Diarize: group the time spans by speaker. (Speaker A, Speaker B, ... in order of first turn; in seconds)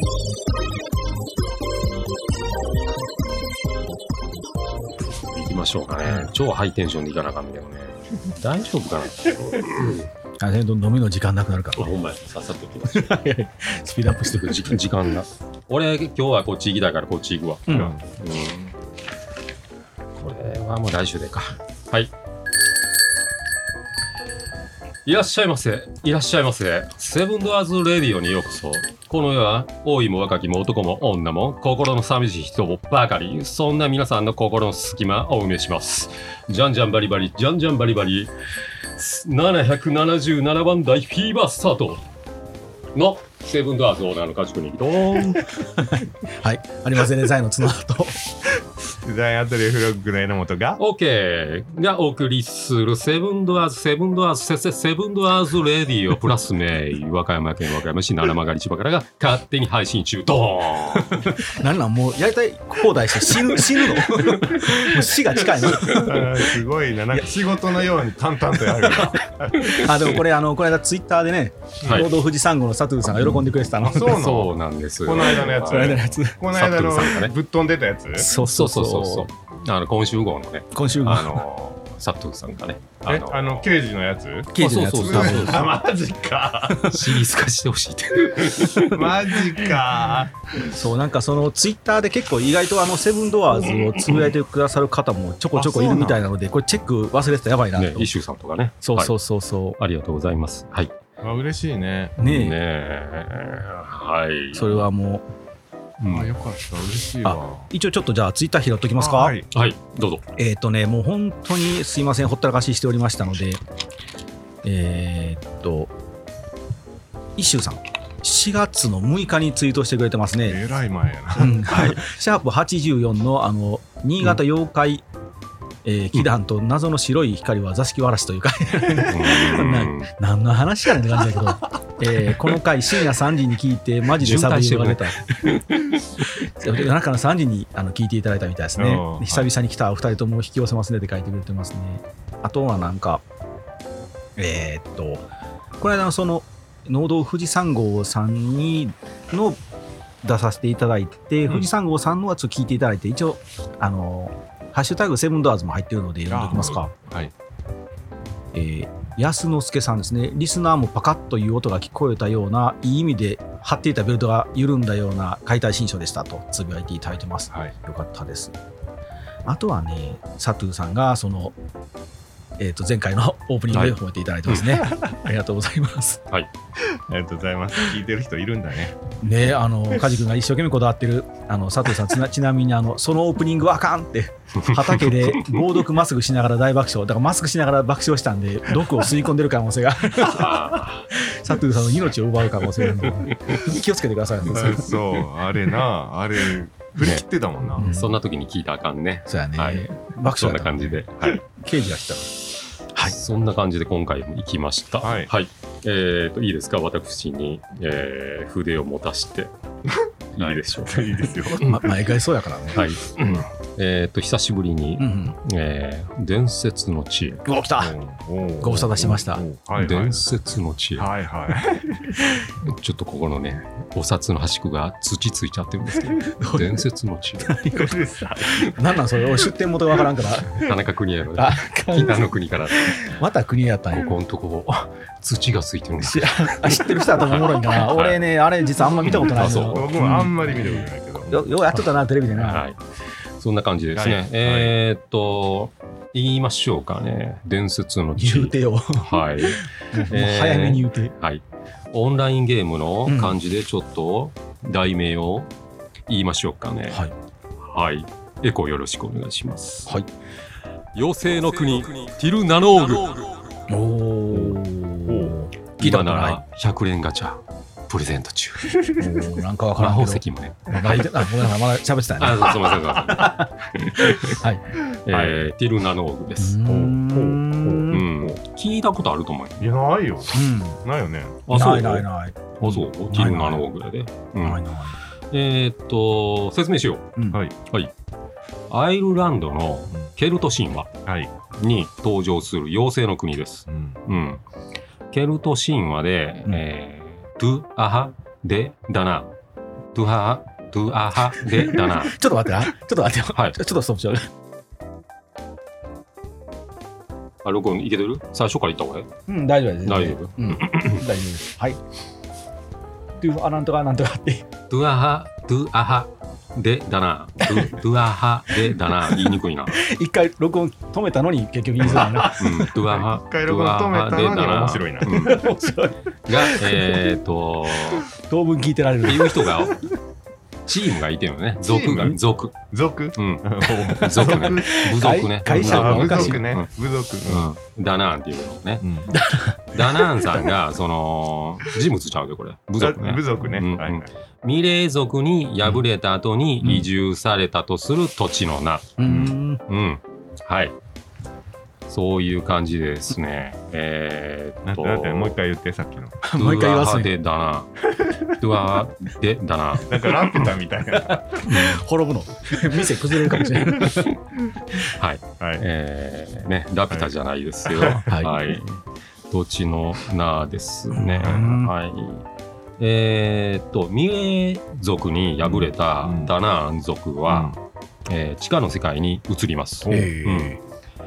Speaker A: 5.3-10.1, 11.7-13.2, 14.2-18.7, 20.2-22.1, 25.0-38.3, 38.9-42.0, 42.9-45.5, 50.8-61.3, 71.8-72.1, 74.0-77.3, 78.3-83.7, 84.6-85.7, 86.8-89.0, 97.8-99.1, 99.8-101.0, 102.2-104.8, 106.0-106.3, 109.5-110.2, 121.7-122.0, 129.0-130.1, 134.2-135.8, 184.6-185.6, 190.2-191.1, 193.3-193.6, 197.0-197.2, 197.8-201.4, 203.0-209.5, 210.3-211.1, 212.7-217.4, 219.8-221.1, 222.6-227.5, 230.5-233.1, 233.9-238.2, 239.0-239.8, 242.4-242.8, 243.4-255.5, 256.1-257.0, 257.6-259.9, 260.9-263.4, 265.8-268.9, 269.8-271.5, 272.2-274.4, 275.0-276.6, 277.9-279.7, 281.5-282.1, 282.6-284.6, 285.3-287.1, 287.6-287.9, 288.7-290.9, 291.5-294.4, 295.1-299.3, 299.9-302.2, 307.4-309.1, 309.9-311.0, 314.7-319.8, 321.8-325.5, 326.2-328.1, 329.0-329.8, 330.7-332.6, 333.1-336.7, 337.2-338.9, 339.7-349.0, 349.7-350.8, 351.9-355.4, 356.4-357.7, 358.4-360.5, 361.5-361.8, 364.9-372.2, 372.8-380.6
Speaker B: 10.4-11.9, 12.9-14.8, 17.7-17.9, 45.7-48.4, 61.1-66.4, 68.9-74.2, 75.5-76.4, 78.2-79.3, 80.7-81.4, 84.5-85.7, 86.8-87.0, 90.6-98.1, 98.8-99.8, 102.2-102.6, 104.5-105.2, 107.2-109.4, 110.3-113.6, 114.6-115.9, 117.3-120.6, 121.3-125.0, 125.8-143.2, 144.4-145.2, 145.8-149.6, 150.2-156.9, 158.5-168.5, 169.4-171.5, 172.6-176.2, 179.2-194.9, 197.8-198.2, 199.3-202.4, 202.9-203.2, 211.6-212.9, 215.0-215.4, 217.4-217.9, 218.6-219.4, 226.3-226.8, 227.4-227.9, 228.5-230.7, 231.3-234.1, 236.0-242.6, 248.2-251.1, 253.1-253.4, 263.7-266.4, 268.9-274.8, 276.4-278.1, 280.3-280.8, 281.5-283.6, 284.4-285.0, 301.5-304.3, 309.3-311.8, 313.2-314.4, 318.8-322.7, 325.0-327.1, 328.1-329.9, 333.8-336.4, 339.1-340.5, 349.0-349.6, 356.2-357.1, 361.1-364.2, 368.1-368.3, 370.9-371.7, 379.9-380.6
Speaker C: 17.7-18.0, 49.0-50.8, 65.8-69.6, 71.8-72.1, 73.8-78.3, 83.1-86.9, 88.8-90.3, 95.5-96.3, 101.2-102.2, 106.1-107.7, 109.0-109.5, 120.4-121.5, 138.8-139.5, 156.3-157.3, 177.0-178.9, 194.4-197.9, 205.0-205.3, 209.9-211.8, 217.8-220.2, 221.0-222.2, 227.7-229.0, 239.1-241.4, 243.9-244.7, 264.3-265.3, 275.1-275.3, 276.6-278.3, 279.6-281.8, 291.1-291.3, 293.7-294.0, 321.9-325.1, 331.6-334.8, 335.4-337.4, 338.8-339.1, 342.8-344.1, 349.1-349.4, 354.6-356.2, 357.9-358.3, 359.9-361.6, 365.4-365.6, 367.6-368.1, 371.2-371.5, 375.4-376.3, 377.3-377.6, 379.9-380.1